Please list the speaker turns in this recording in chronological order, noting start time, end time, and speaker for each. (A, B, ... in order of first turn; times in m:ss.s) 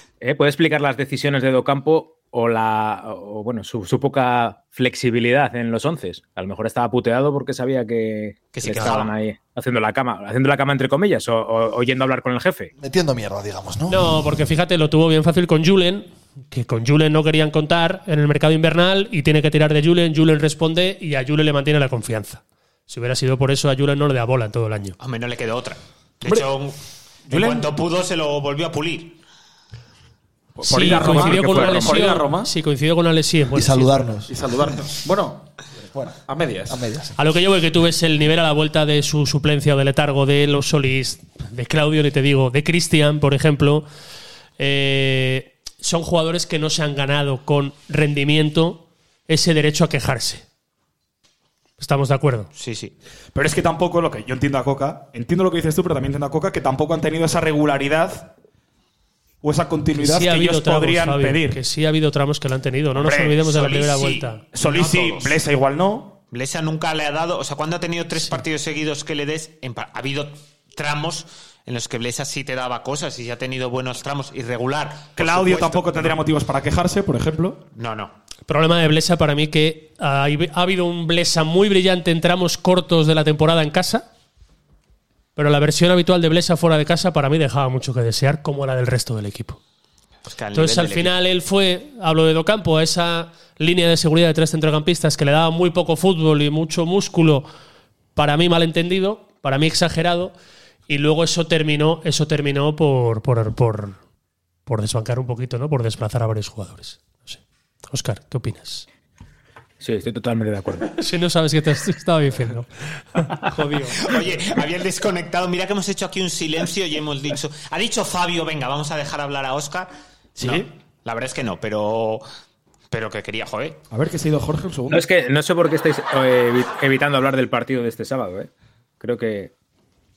0:00.2-0:12.7 A
0:08.5-0:09.1 B
0:08.8-0:09.0 C
0:12.8-0:14.2 D
0:13.9-0:25.0 C
0:25.0-0:26.8 B
0:27.3-0:29.2 B
0:27.3-0:27.7 E
0:30.6-0:32.5 E
0:30.6-0:34.2 C
0:30.8-0:32.0 A
0:33.5-0:34.3 D
0:34.3-0:35.5 E
0:35.9-0:37.2 D
0:36.3-0:36.8 E
0:37.2-0:43.9 C
0:44.6-0:50.4 C
0:51.8-0:52.5 C
0:52.5-0:53.0 B
0:53.4-0:58.3 E
0:59.4-1:01.6 E
1:00.0-1:04.4 C
1:03.0-1:03.4 E
1:03.4-1:05.4 B
1:04.5-1:06.2 E
1:06.3-1:16.2 B
1:15.2-1:17.6 E
1:17.8-1:18.1 B
1:18.5-1:24.1 C
1:25.4-1:29.6 C
1:30.3-1:31.1 B
1:30.5-1:37.5 C
1:38.2-1:40.3 C
1:40.9-1:44.0 C
1:44.7-1:48.9 C
1:49.8-1:50.9 A
1:50.9-1:54.2 C
1:54.0-1:59.9 B
2:00.4-2:00.7 E
2:00.4-2:02.2 B
2:02.9-2:03.8 B
2:03.9-2:05.0 E
2:04.9-2:09.5 A